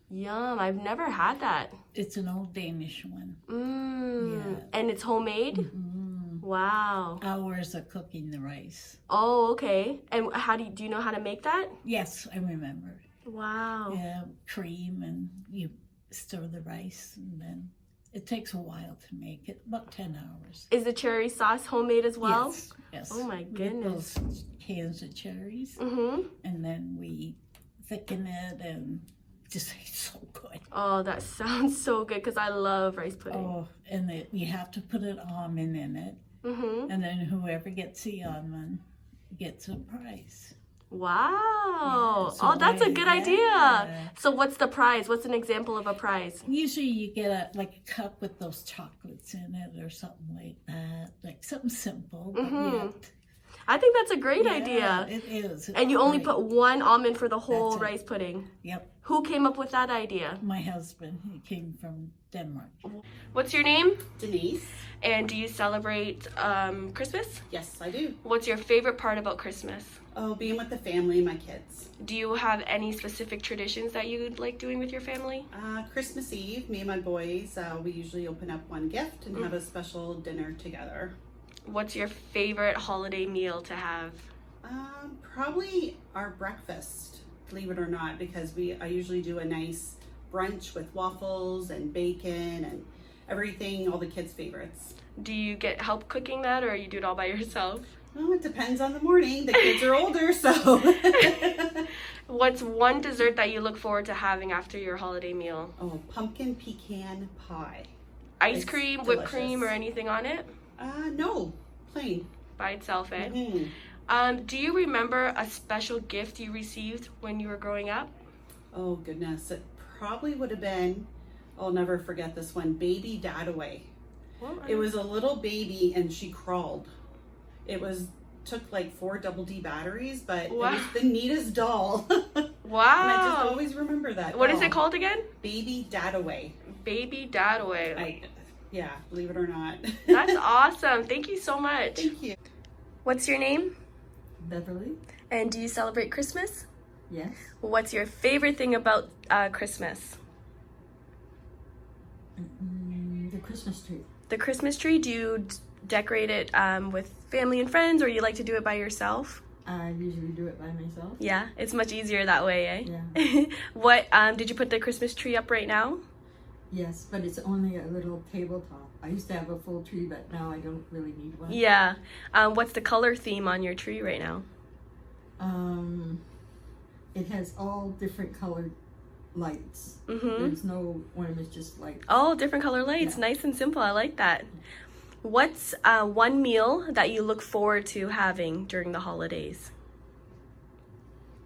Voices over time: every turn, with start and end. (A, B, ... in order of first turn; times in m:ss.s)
0:00.1-0:01.8 A
0:01.9-0:03.4 B
0:03.5-0:05.7 A
0:04.2-0:04.7 B
0:05.5-0:06.4 B
0:06.4-0:07.2 A
0:07.2-0:09.0 B
0:09.1-0:11.7 A
0:11.8-0:13.0 B
0:13.2-0:14.0 A
0:13.9-0:20.7 B
0:20.7-0:24.1 A
0:22.2-0:25.8 B
0:25.8-0:26.3 A
0:26.4-0:30.6 B
0:30.7-0:33.5 A
0:33.3-0:36.2 B
0:36.4-0:36.9 A
0:36.9-0:40.6 B
0:40.9-0:46.4 A
0:41.8-0:44.1 B
0:46.5-0:53.1 B
0:52.4-0:53.0 A
0:53.7-0:55.1 A
0:54.4-0:56.4 B
0:55.7-0:58.5 A
0:57.5-0:58.0 B
0:58.6-0:58.9 B
0:59.0-1:00.4 A
1:00.4-1:02.8 B
1:02.8-1:04.0 A
1:04.2-1:04.9 C
1:05.0-1:07.4 A
1:07.5-1:08.2 C
1:08.2-1:10.0 A
1:10.2-1:11.9 C
1:12.0-1:15.5 A
1:15.5-1:21.2 C
1:21.7-1:24.3 A
1:24.6-1:35.0 C
1:35.2-1:37.9 A
1:38.2-1:41.9 C
1:42.3-1:45.7 A
1:45.8-1:47.9 C
1:48.4-1:50.5 A
1:48.5-1:49.7 C
1:50.8-1:52.3 C
1:52.6-1:53.4 A
1:53.2-1:53.7 C
1:54.1-1:58.1 A
1:58.7-2:03.9 C
2:04.4-2:04.9 A
2:04.6-2:06.9 C
2:07.6-2:14.8 C
2:10.5-2:11.0 A
2:12.6-2:13.6 A
2:14.3-2:15.3 A
2:15.4-2:16.6 C
2:16.7-2:18.1 A
2:18.0-2:20.4 C
2:20.1-2:22.1 A
2:22.0-2:22.4 C
2:23.0-2:23.7 A
2:24.4-2:25.0 D
2:25.3-2:26.7 A
2:27.1-2:27.4 D
2:27.6-2:30.2 A
2:32.4-2:34.1 D
2:34.3-2:39.4 A
2:39.6-2:41.2 D
2:41.2-2:46.0 A
2:42.8-2:43.2 D
2:46.7-2:51.6 D
2:51.5-2:54.5 A
2:55.4-2:56.2 D
2:57.1-2:58.8 D
2:59.3-3:02.0 D
3:00.1-3:00.6 A
3:02.1-3:04.5 A
3:05.2-3:09.7 A